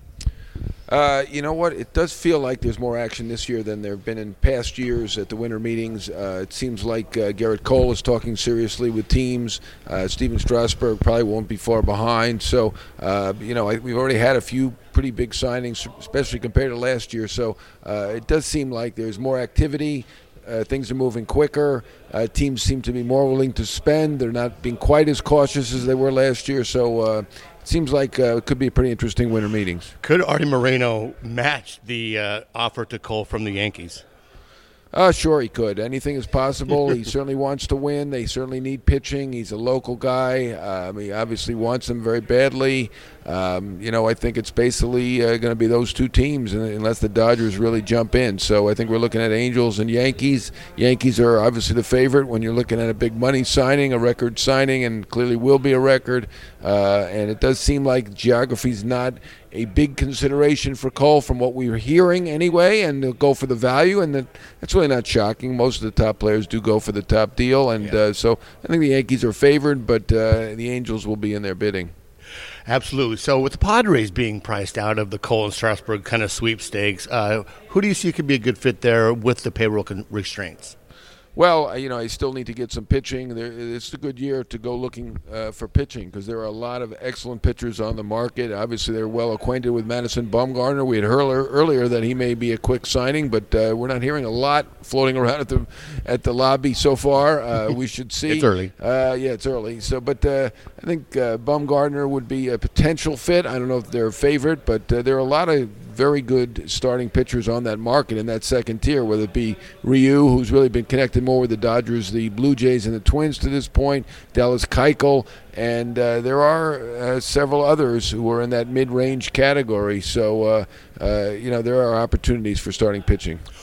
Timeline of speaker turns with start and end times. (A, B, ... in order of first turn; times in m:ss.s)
0:00.9-0:29.9 A
0:30.0-0:34.0 B
0:34.9-1:11.9 A
1:12.7-1:20.7 B
1:21.3-2:03.4 A
1:38.3-1:38.7 B